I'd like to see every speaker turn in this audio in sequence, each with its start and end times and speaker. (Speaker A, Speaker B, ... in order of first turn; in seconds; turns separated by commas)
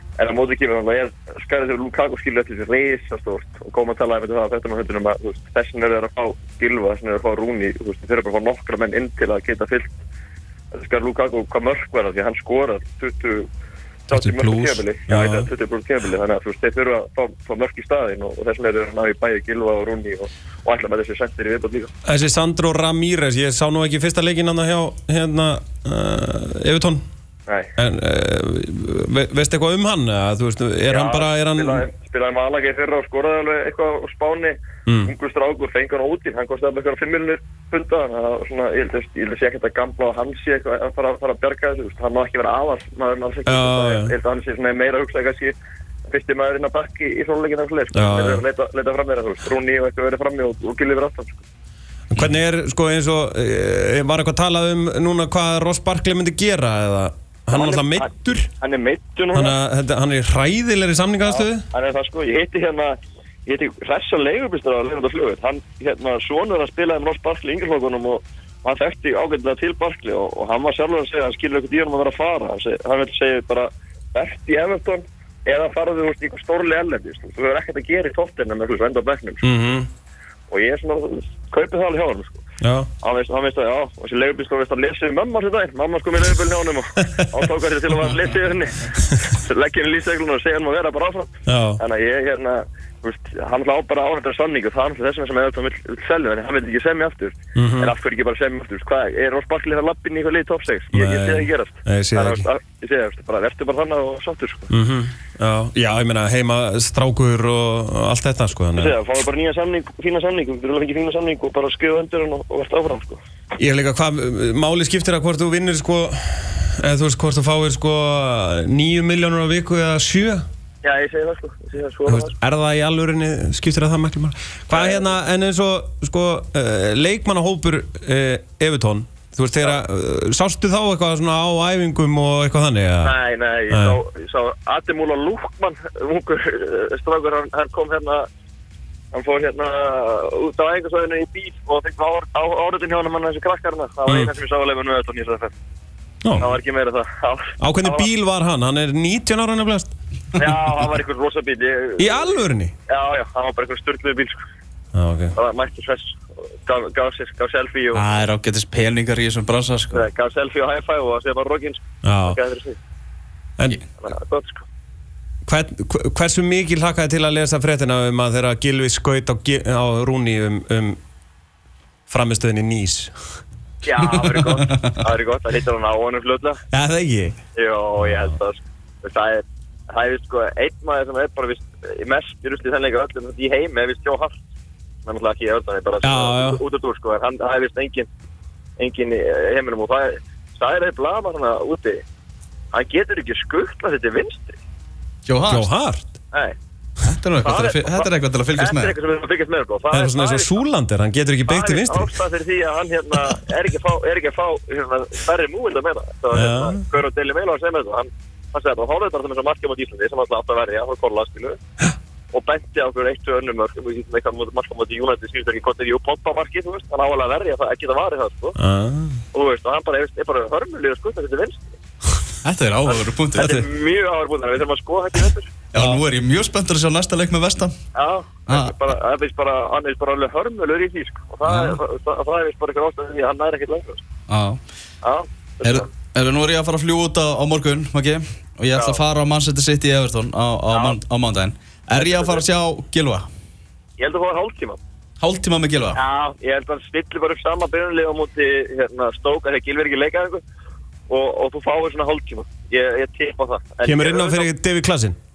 Speaker A: 0.2-9.9, Speaker A: 10.7-13.5, Speaker A: 14.1-21.9, Speaker B: 14.1-15.5, Speaker B: 22.1-27.0, Speaker B: 27.8-31.9, Speaker A: 30.9-45.5, Speaker B: 34.9-35.1, Speaker B: 43.5-44.1, Speaker A: 46.1-51.4, Speaker B: 47.9-48.4, Speaker B: 52.1-58.5, Speaker A: 57.5-59.5, Speaker B: 59.3-61.6, Speaker A: 61.2-79.5, Speaker B: 79.4-79.9, Speaker A: 80.5-82.4, Speaker B: 82.6-82.9, Speaker A: 83.0-104.7, Speaker B: 91.5-91.8, Speaker B: 97.5-97.9, Speaker B: 100.9-102.5, Speaker B: 104.7-108.9, Speaker A: 108.8-113.2, Speaker B: 113.6-120.4, Speaker A: 120.8-122.3, Speaker B: 122.1-133.1, Speaker A: 124.7-125.1, Speaker A: 133.0-138.3, Speaker B: 133.7-134.0, Speaker A: 139.1-145.5, Speaker B: 144.1-144.3, Speaker B: 146.2-146.5, Speaker A: 146.3-148.1, Speaker B: 147.6-149.9, Speaker A: 150.3-152.4, Speaker B: 152.0-152.7, Speaker A: 152.9-154.4, Speaker B: 154.9-155.3, Speaker A: 155.3-158.0, Speaker C: 157.9-160.1, Speaker A: 159.9-162.8, Speaker B: 162.0-162.4, Speaker A: 164.0-164.7, Speaker B: 165.4-171.0, Speaker B: 172.1-173.2, Speaker A: 173.8-176.6, Speaker C: 174.2-174.9, Speaker B: 176.7-177.4, Speaker A: 177.5-184.4, Speaker A: 185.0-188.1, Speaker B: 186.0-186.6, Speaker A: 188.8-192.0, Speaker A: 192.7-194.6, Speaker C: 195.2-195.7, Speaker B: 195.5-196.1, Speaker B: 197.0-197.5, Speaker C: 197.1-198.9, Speaker A: 197.4-200.6, Speaker B: 199.9-202.1, Speaker A: 201.5-211.6, Speaker B: 206.3-206.8, Speaker A: 212.3-218.6, Speaker B: 218.6-219.2, Speaker A: 219.3-221.8, Speaker C: 222.4-223.6, Speaker A: 222.9-225.5, Speaker B: 223.4-223.6, Speaker C: 225.7-227.7, Speaker A: 227.9-234.0, Speaker C: 228.5-228.8, Speaker C: 231.4-231.8, Speaker C: 234.3-234.6, Speaker A: 235.0-235.9, Speaker C: 235.6-243.3, Speaker A: 238.7-239.0, Speaker A: 240.7-241.0, Speaker A: 241.9-242.4, Speaker A: 244.0-244.8, Speaker C: 245.2-246.0, Speaker A: 245.9-250.4, Speaker A: 251.1-254.5, Speaker B: 253.8-255.2